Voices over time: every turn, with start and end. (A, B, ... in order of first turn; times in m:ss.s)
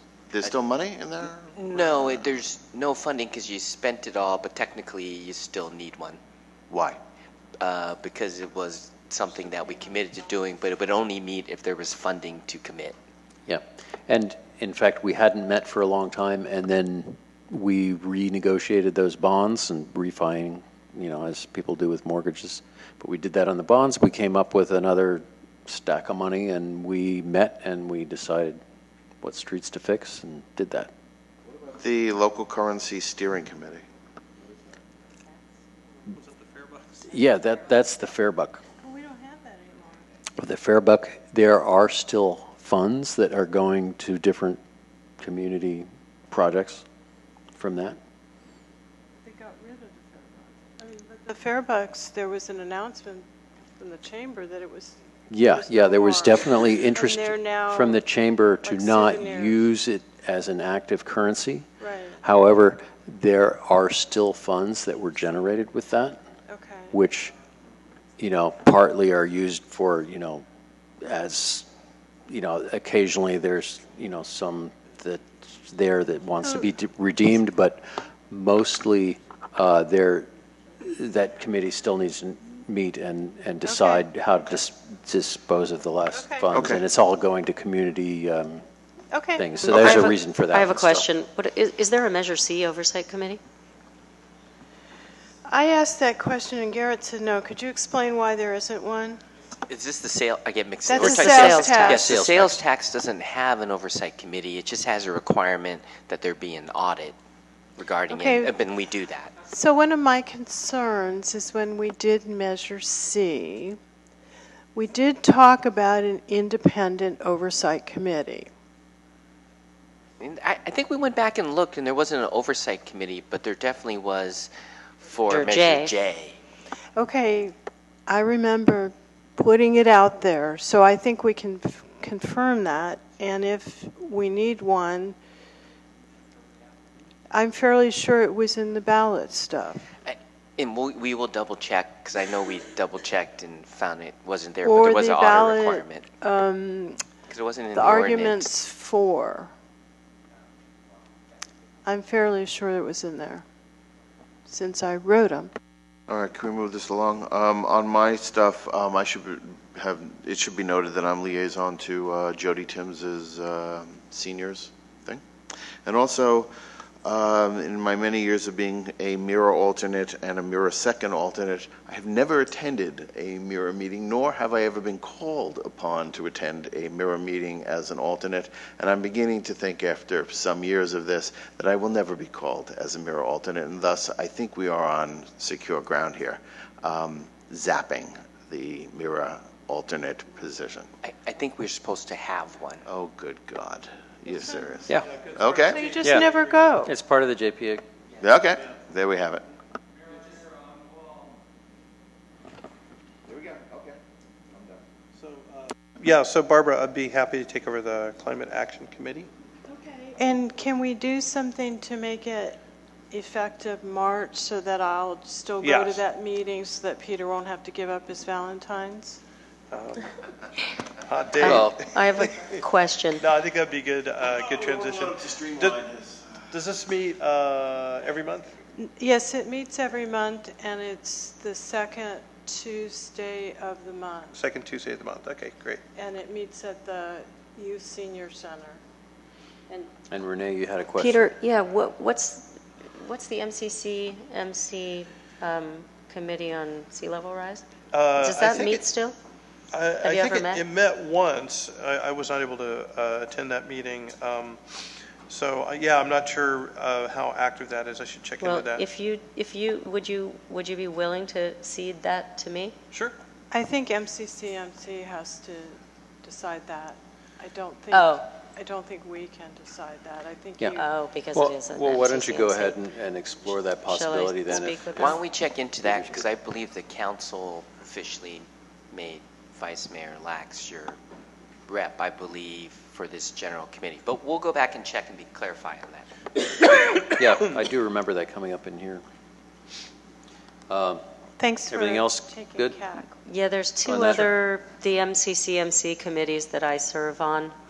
0:00.3-0:02.3 A
0:01.5-0:06.2 B
0:06.7-0:07.0 A
0:07.6-0:13.0 B
0:13.5-0:28.6 C
0:29.2-0:30.9 C
0:31.7-0:33.8 A
0:36.1-0:37.1 D
0:37.0-0:38.6 C
0:38.8-0:40.1 E
0:40.4-0:44.6 C
0:45.2-0:46.8 C
0:47.6-0:48.0 C
0:49.2-0:53.2 E
0:53.8-0:59.6 E
0:55.3-1:01.7 C
1:01.8-1:02.2 E
1:02.2-1:06.2 C
1:06.5-1:07.0 E
1:06.9-1:07.3 C
1:08.2-1:10.4 C
1:11.0-1:11.6 C
1:12.3-1:20.3 C
1:20.8-1:28.6 C
1:23.6-1:24.0 E
1:26.1-1:26.4 E
1:26.5-1:26.8 A
1:29.1-1:29.4 E
1:29.4-1:31.1 C
1:29.6-1:33.4 F
1:35.5-1:39.2 E
1:39.6-1:47.1 B
1:40.8-1:42.1 E
1:40.9-1:42.6 C
1:41.2-1:42.0 F
1:47.8-1:49.3 B
1:48.1-1:48.6 E
1:49.4-1:53.8 E
1:54.7-1:58.5 E
2:00.2-2:04.5 B
2:05.0-2:06.4 B
2:05.3-2:05.9 F
2:07.0-2:07.5 E
2:08.1-2:15.2 E
2:17.3-2:19.9 E
2:20.0-2:26.0 B
2:24.6-2:27.0 E
2:27.3-2:28.5 B
2:27.7-2:29.5 E
2:31.8-2:33.4 E
2:34.4-2:35.5 E
2:36.1-2:45.2 A
2:45.8-2:46.5 A
2:47.0-3:10.9 A
3:11.0-3:12.8 B
3:12.8-3:15.8 A
3:15.1-3:16.7 D
3:15.7-3:16.9 E
3:16.0-3:16.3 C
3:16.8-3:17.8 C
3:18.2-3:19.4 A
3:25.2-3:29.3 D
3:29.7-3:32.6 E
3:33.1-3:39.2 E
3:35.6-3:36.0 D
3:39.7-3:40.1 D
3:41.0-3:42.6 D
3:41.4-3:43.2 F
3:41.4-3:41.8 C
3:43.2-3:45.8 D
3:44.7-3:46.4 A
3:46.5-3:48.5 D
3:48.8-3:54.3 E
3:54.3-3:55.8 D
3:55.9-3:58.8 E
4:00.1-4:01.2 C
4:01.0-4:09.2 F
4:07.9-4:08.9 D
4:09.7-4:14.6 D
4:10.0-4:10.6 F
4:15.3-4:18.9 D
4:18.4-4:22.7 F
4:23.5-4:30.9 E
4:27.9-4:28.3 F
4:30.8-4:32.8 F
4:31.3-4:36.3 C
4:33.5-4:35.2 F
4:35.0-4:41.0 B
4:41.7-4:46.1 B
4:47.0-4:49.0 C
4:50.7-4:51.0 C
4:51.4-4:53.2 E
4:51.7-4:52.9 C
4:53.2-4:57.5 F
4:53.8-4:54.3 C